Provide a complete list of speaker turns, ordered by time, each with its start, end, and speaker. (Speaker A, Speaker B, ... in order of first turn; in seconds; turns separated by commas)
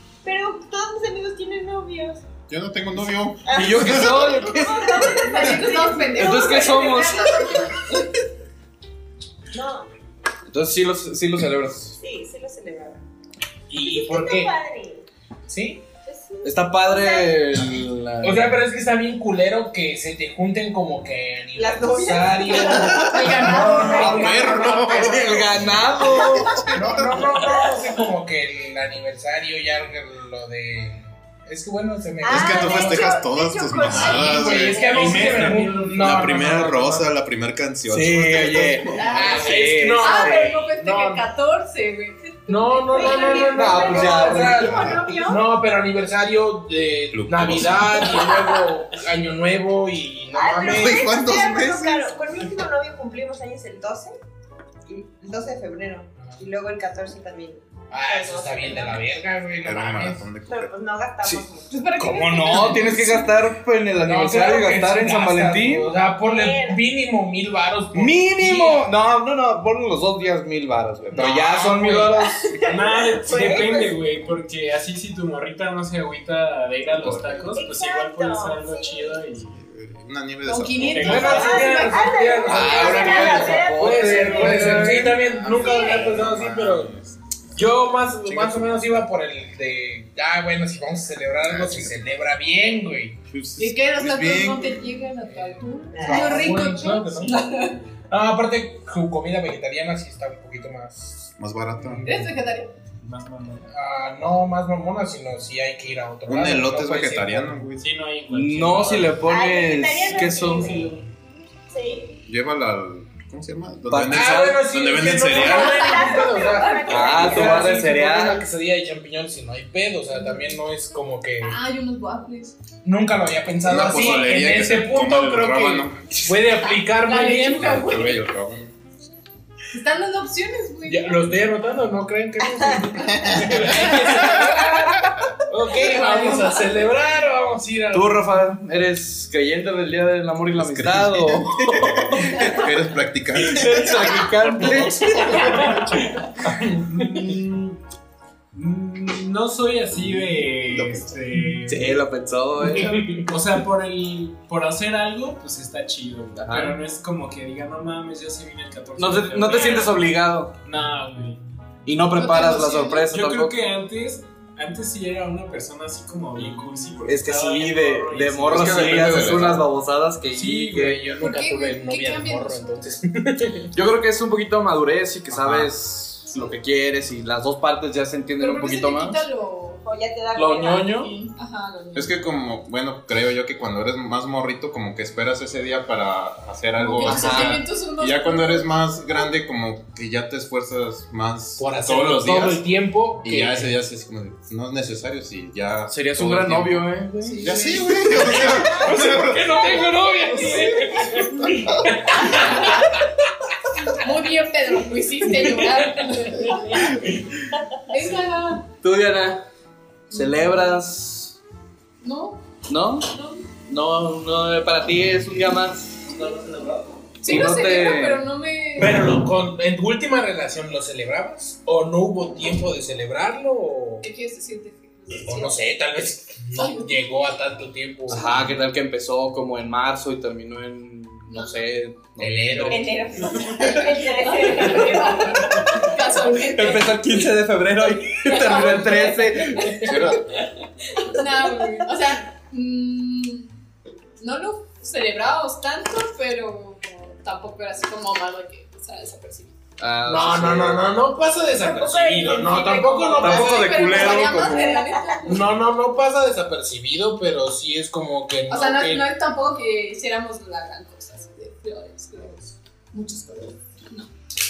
Speaker A: 0.2-2.2, Speaker B: 2.5-4.5, Speaker A: 3.5-7.7, Speaker C: 3.5-5.0, Speaker D: 4.9-8.2, Speaker C: 6.1-7.3, Speaker A: 9.5-9.9, Speaker C: 10.5-12.0, Speaker A: 12.0-13.0, Speaker E: 13.7-14.5, Speaker A: 13.8-15.1, Speaker E: 15.5-15.8, Speaker A: 16.1-17.7, Speaker C: 16.4-18.6, Speaker E: 18.2-25.6, Speaker A: 21.6-23.8, Speaker D: 22.6-24.9, Speaker B: 23.0-25.5, Speaker C: 23.6-26.6, Speaker B: 26.5-27.2, Speaker E: 26.7-33.2, Speaker A: 32.2-35.3, Speaker B: 32.2-35.4, Speaker E: 34.0-37.1, Speaker F: 34.7-36.7, Speaker B: 36.0-39.1, Speaker C: 37.9-40.5, Speaker A: 39.0-39.7, Speaker E: 39.0-41.2, Speaker D: 40.0-43.6, Speaker E: 42.5-51.1, Speaker A: 42.9-45.5, Speaker C: 43.5-44.7, Speaker B: 44.5-45.2, Speaker B: 47.1-48.2, Speaker A: 48.1-48.5, Speaker A: 50.3-54.1, Speaker B: 50.6-52.1, Speaker A: 54.9-59.2, Speaker E: 56.2-56.4, Speaker E: 57.9-60.3, Speaker B: 59.6-60.7, Speaker A: 60.5-62.6, Speaker C: 61.2-65.9, Speaker D: 61.7-63.4, Speaker E: 62.6-62.9, Speaker E: 64.0-68.9, Speaker A: 66.2-66.8, Speaker C: 67.9-72.4, Speaker E: 71.1-72.2, Speaker A: 72.5-74.0, Speaker F: 72.7-79.6, Speaker B: 77.0-77.5, Speaker A: 77.5-79.2, Speaker B: 79.4-81.4, Speaker D: 80.5-82.6, Speaker F: 80.9-81.4, Speaker E: 81.0-86.9, Speaker A: 81.2-85.0, Speaker C: 82.4-85.2, Speaker B: 85.0-87.2, Speaker A: 85.5-86.2, Speaker E: 87.5-93.2, Speaker B: 88.2-89.0, Speaker B: 91.5-92.0, Speaker C: 93.3-93.6, Speaker B: 93.6-94.8, Speaker D: 93.6-97.8, Speaker E: 95.3-97.5, Speaker A: 95.9-96.5, Speaker E: 98.1-102.2, Speaker B: 101.4-102.0, Speaker D: 102.0-102.7, Speaker F: 103.0-103.7, Speaker E: 103.7-107.6, Speaker B: 106.3-107.9, Speaker F: 107.8-109.2, Speaker C: 108.3-110.9, Speaker A: 109.2-111.0, Speaker A: 111.7-112.1, Speaker B: 112.3-115.8, Speaker C: 113.9-114.6, Speaker E: 114.1-121.6, Speaker A: 115.2-117.9, Speaker D: 115.3-117.4, Speaker C: 116.9-118.5, Speaker D: 120.2-120.5, Speaker D: 121.4-122.6, Speaker E: 122.8-128.0, Speaker B: 123.7-126.2, Speaker D: 127.0-128.2, Speaker B: 127.6-128.7, Speaker D: 129.7-131.5, Speaker E: 130.9-138.2, Speaker A: 132.5-133.0, Speaker B: 133.1-134.2, Speaker D: 135.8-136.8, Speaker C: 137.9-142.4, Speaker B: 140.6-145.5, Speaker C: 143.3-145.8, Speaker E: 145.4-145.9, Speaker E: 146.4-147.3, Speaker F: 147.0-147.7, Speaker F: 148.5-152.0, Speaker B: 150.6-151.2, Speaker C: 151.7-153.1, Speaker E: 152.6-153.3, Speaker F: 153.3-160.1, Speaker C: 156.4-156.8, Speaker C: 159.0-160.5, Speaker D: 159.5-160.0, Speaker F: 160.6-161.4, Speaker C: 161.9-163.6, Speaker D: 162.1-163.1, Speaker F: 163.0-169.4, Speaker C: 166.4-171.0, Speaker B: 168.5-169.7, Speaker E: 170.3-173.7, Speaker D: 171.2-172.8, Speaker C: 173.7-179.2, Speaker B: 175.3-175.7, Speaker D: 178.4-179.8, Speaker A: 179.8-181.1, Speaker D: 180.9-182.2, Speaker B: 181.9-192.7, Speaker D: 186.8-189.2, Speaker C: 187.0-187.6, Speaker E: 191.6-193.7, Speaker B: 193.2-199.7, Speaker C: 195.9-197.6, Speaker D: 197.2-198.4, Speaker E: 198.3-203.0, Speaker D: 200.3-200.7, Speaker D: 202.4-202.8, Speaker D: 203.9-207.0, Speaker E: 205.3-205.7, Speaker D: 207.9-208.7, Speaker C: 208.8-209.4, Speaker C: 210.1-211.4, Speaker D: 210.1-210.7, Speaker D: 212.0-212.4, Speaker C: 212.7-213.1, Speaker D: 213.1-213.5, Speaker C: 213.7-216.1, Speaker D: 217.2-219.1, Speaker C: 217.2-218.2, Speaker E: 218.8-224.1, Speaker D: 224.0-225.9, Speaker E: 225.2-228.5, Speaker D: 226.5-227.2, Speaker C: 228.1-233.0, Speaker D: 231.3-231.6, Speaker E: 232.2-233.1, Speaker A: 232.7-235.9, Speaker D: 233.6-237.3, Speaker C: 236.5-240.2, Speaker D: 238.1-240.4, Speaker D: 241.0-243.5, Speaker D: 244.2-249.5, Speaker C: 249.8-250.9, Speaker E: 250.1-254.2, Speaker A: 251.6-255.2, Speaker D: 253.0-255.6, Speaker C: 253.2-254.7, Speaker E: 255.3-259.1, Speaker D: 258.5-264.1